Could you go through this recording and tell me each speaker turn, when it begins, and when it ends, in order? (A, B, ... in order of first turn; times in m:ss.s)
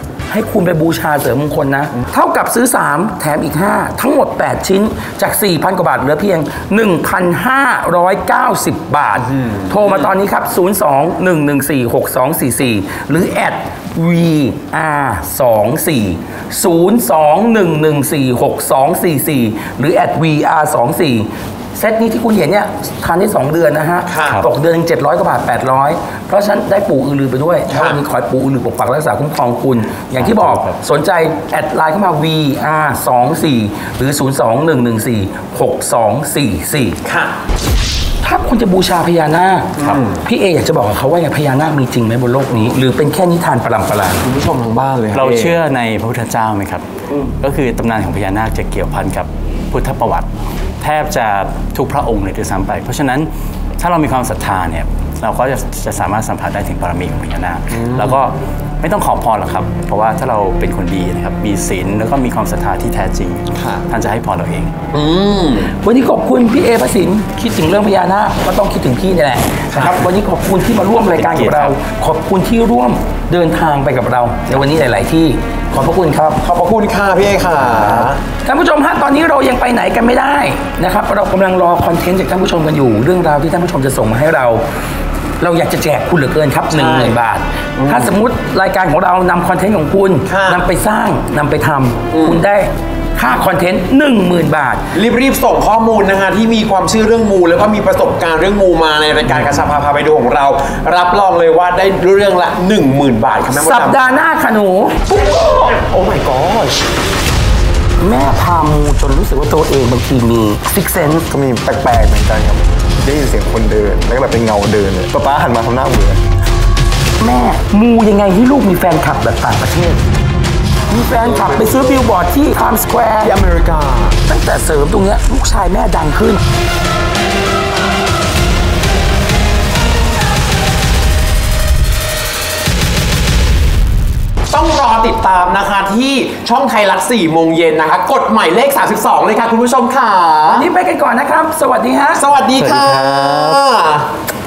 0:00.3-0:37.0 A
0:09.2-0:10.1 B
0:24.1-0:24.4 B
0:27.7-0:28.0 B
0:30.2-0:30.8 C
0:37.0-0:37.3 B
0:38.2-0:39.7 A
0:39.8-0:40.2 B
0:40.2-0:44.3 A
0:44.2-0:45.6 B
0:45.1-0:46.8 C
0:47.4-0:50.3 C
0:50.8-1:04.7 C
0:57.7-0:58.2 B
1:03.6-1:03.8 B
1:04.9-1:05.7 B
1:05.8-1:16.4 A
1:09.7-1:10.0 B
1:11.2-1:11.8 C
1:16.4-1:18.2 B
1:18.4-1:24.6 A
1:25.4-1:34.9 A
1:26.7-1:27.2 B
1:27.8-1:28.1 B
1:30.3-1:30.6 B
1:32.1-1:32.4 B
1:34.9-1:44.1 B
1:43.5-1:45.8 A
1:45.6-1:46.8 B
1:48.0-1:51.2 A
1:51.3-1:56.2 D
1:57.2-2:00.0 A
2:00.9-2:03.4 A
2:01.2-2:02.0 B
2:03.2-2:04.2 B
2:04.3-2:06.4 A
2:14.5-2:20.7 B
2:20.5-2:22.2 A
2:22.2-2:24.1 B
2:22.6-2:23.6 C